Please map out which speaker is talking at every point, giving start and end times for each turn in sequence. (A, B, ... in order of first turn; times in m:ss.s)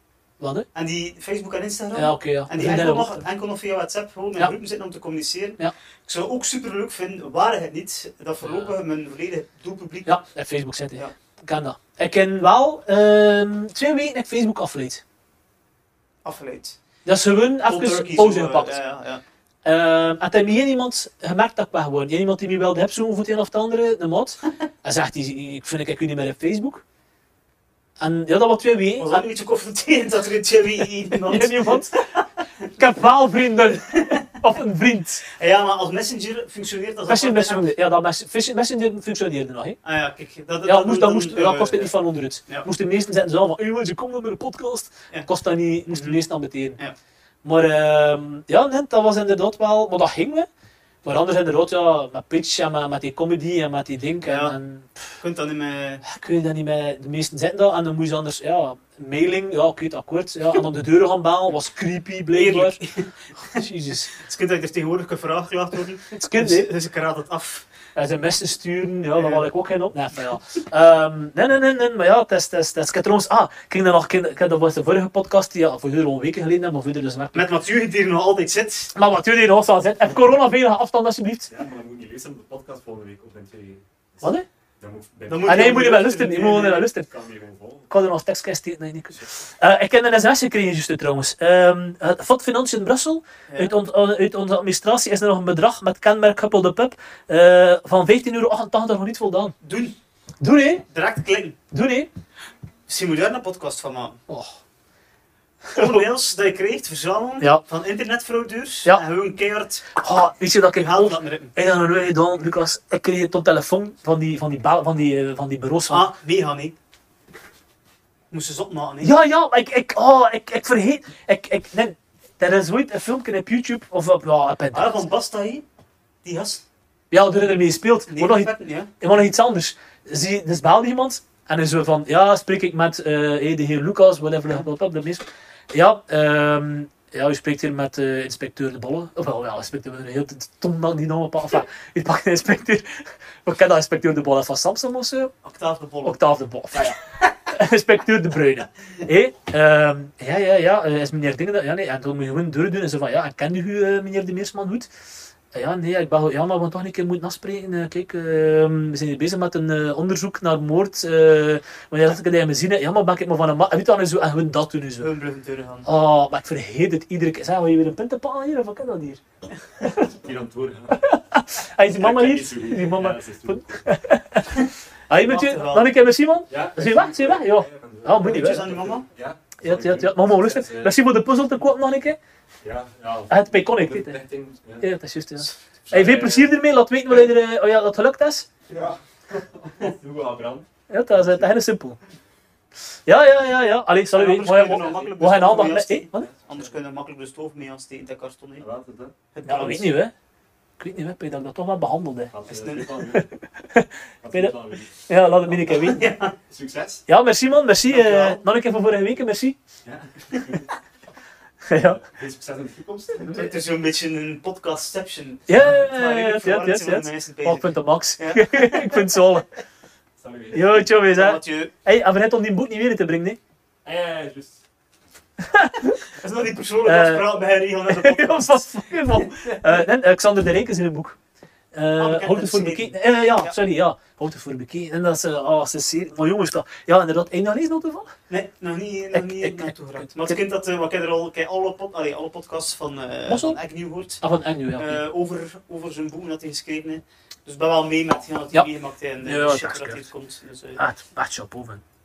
0:00.4-0:00.7 A
0:00.7-0:10.1 B
0:01.9-0:03.2 A
0:08.4-0:08.7 A
0:10.0-0:15.0 A
0:16.2-0:16.8 B
0:17.0-0:18.8 A
0:17.6-0:19.2 B
0:19.6-0:26.8 A
0:28.0-0:29.2 A
0:29.0-0:32.4 B
0:31.1-0:32.0 A
0:32.7-0:35.2 A
0:35.3-0:37.7 B
0:37.1-0:39.8 A
0:39.8-0:41.9 B
0:40.6-0:46.8 A
0:45.9-0:46.2 B
0:47.4-0:50.5 A
0:51.0-0:55.1 A
0:54.2-0:54.6 B
0:55.2-0:56.0 B
0:56.0-1:02.8 A
1:02.3-1:07.7 B
1:03.4-1:04.1 A
1:06.1-1:06.7 A
1:07.9-1:17.5 A
1:09.2-1:09.5 B
1:17.3-1:18.9 B
1:18.9-1:21.5 A
1:21.5-1:24.2 C
1:24.8-1:25.7 C
1:25.3-1:26.9 B
1:25.4-1:27.1 A
1:27.1-1:27.9 C
1:27.9-1:39.5 A
1:39.6-1:40.0 B
1:40.4-1:40.8 A
1:40.9-1:41.6 B
1:41.7-1:42.1 A
1:42.9-1:44.2 B
1:44.3-1:44.6 A
1:45.6-1:46.0 A
1:45.7-1:49.9 B
1:49.9-1:56.1 A
1:50.7-1:51.6 B
1:55.9-1:56.7 B
1:58.3-1:59.2 B
1:59.0-2:05.0 A
2:04.7-2:05.6 B
2:06.2-2:06.6 B
2:07.1-2:25.3 A
2:08.1-2:08.9 B
2:25.4-2:26.2 B
2:26.0-2:34.9 A
2:35.5-2:45.1 A
2:45.0-2:45.8 B
2:45.8-2:49.2 A
2:49.8-2:50.1 A
2:50.0-2:51.1 C
2:51.0-2:58.7 A
2:52.0-2:53.8 C
2:55.2-2:55.9 B
2:56.5-3:00.9 C
2:58.1-2:59.0 B
2:59.6-3:02.2 A
3:02.6-3:04.9 C
3:03.3-3:04.2 A
3:04.8-3:08.5 A
3:05.9-3:06.5 C
3:08.7-3:10.7 C
3:10.9-3:12.0 A
3:13.0-3:16.3 A
3:14.1-3:18.6 B
3:16.2-3:16.7 C
3:18.6-3:19.1 C
3:19.3-3:19.9 B
3:19.4-3:20.1 A
3:20.8-3:22.3 A
3:22.3-3:23.3 C
3:22.5-3:22.9 B
3:23.1-3:24.5 A
3:24.2-3:25.9 C
3:25.1-3:26.0 A
3:25.8-3:26.3 B
3:26.5-3:27.0 C
3:27.1-3:29.6 A
3:27.9-3:28.4 B
3:29.8-3:30.7 C
3:31.6-3:32.0 A
3:32.0-3:33.4 C
3:33.2-3:39.2 B
3:35.5-3:39.5 A
3:40.2-3:40.9 C
3:40.5-3:43.4 A
3:41.1-3:41.7 B
3:43.8-3:44.6 C
3:45.4-3:46.0 A
3:46.0-3:49.8 B
3:46.8-3:47.3 A
3:47.9-3:51.2 A
3:51.7-3:58.1 A
3:52.0-3:53.6 B
3:58.3-4:04.2 B
3:59.1-4:00.4 A
4:03.3-4:03.6 A
4:04.2-4:05.0 A
4:04.8-4:10.8 B
4:09.2-4:10.0 A
4:10.8-4:11.8 A